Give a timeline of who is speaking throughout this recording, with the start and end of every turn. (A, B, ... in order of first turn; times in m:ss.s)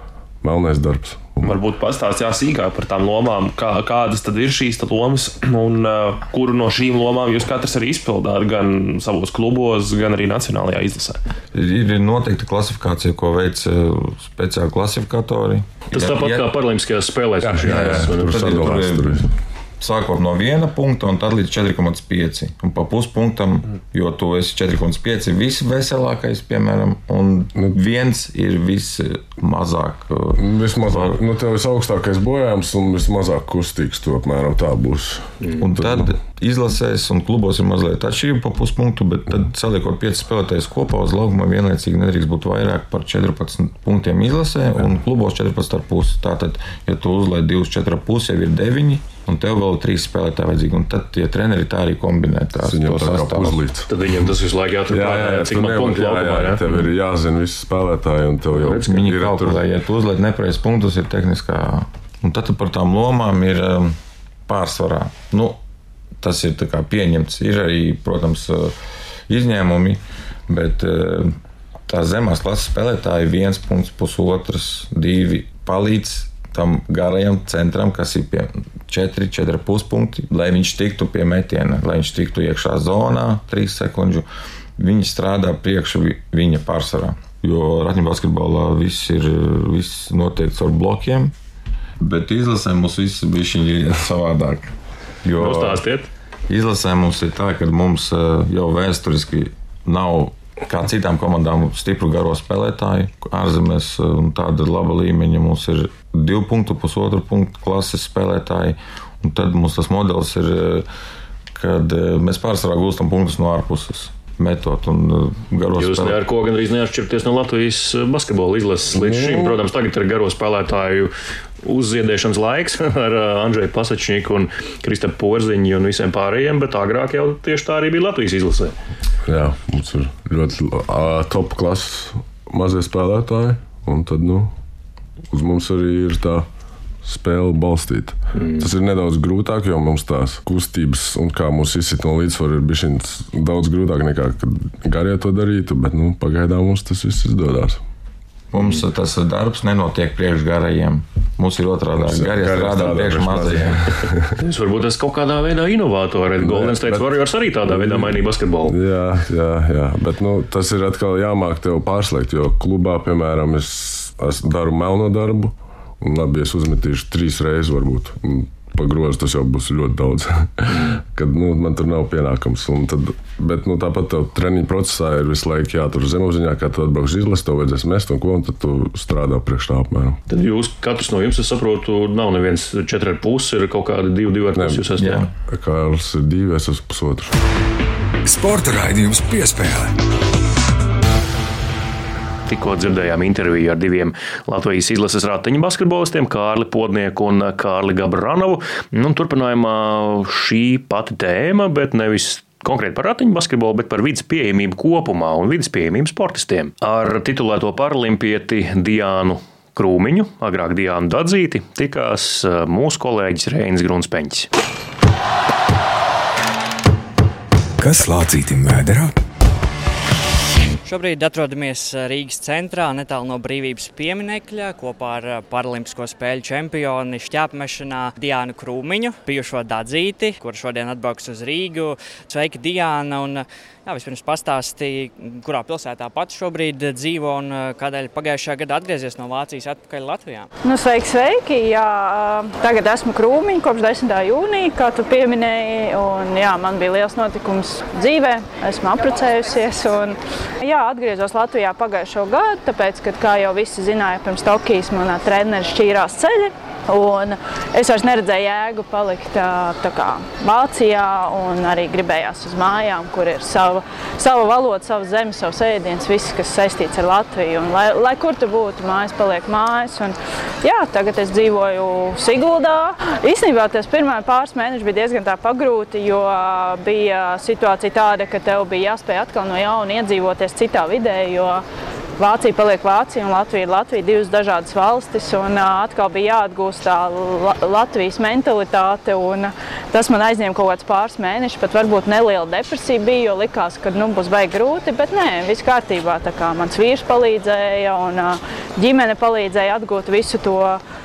0:00.4-0:01.5 A
0:01.4-0:11.2 B
0:11.5-0:16.5 C
0:15.9-0:18.6 D
0:17.4-0:19.3 A
0:17.6-0:19.3 C
0:19.8-0:31.2 C
0:30.4-0:36.1 A
0:35.6-0:53.6 C
0:52.6-0:53.9 A
0:53.9-0:56.7 D
0:54.9-0:59.6 A
0:58.6-1:04.0 C
1:04.5-1:05.6 C
1:06.2-1:08.7 C
1:09.3-1:11.4 C
1:11.9-1:24.2 C
1:24.8-1:31.3 C
1:32.0-1:34.7 C
1:35.2-1:35.8 C
1:35.4-1:36.1 D
1:36.5-1:50.8 C
1:51.5-1:56.2 C
1:55.8-2:01.1 D
1:58.9-1:59.6 A
2:01.6-2:08.7 D
2:09.2-2:14.5 A
2:15.3-2:16.4 A
2:17.0-2:27.8 A
2:18.3-2:18.7 D
2:28.5-2:33.9 C
2:31.9-2:34.4 A
2:34.4-2:38.8 D
2:36.4-2:37.1 A
2:37.7-3:00.2 A
3:00.3-3:05.3 D
3:04.5-3:07.4 A
3:05.0-3:05.3 C
3:08.2-3:09.9 E
3:12.5-3:34.5 D
3:37.8-3:39.1 E
3:40.8-4:00.5 F
4:00.6-4:41.6 G
4:42.2-5:00.8 G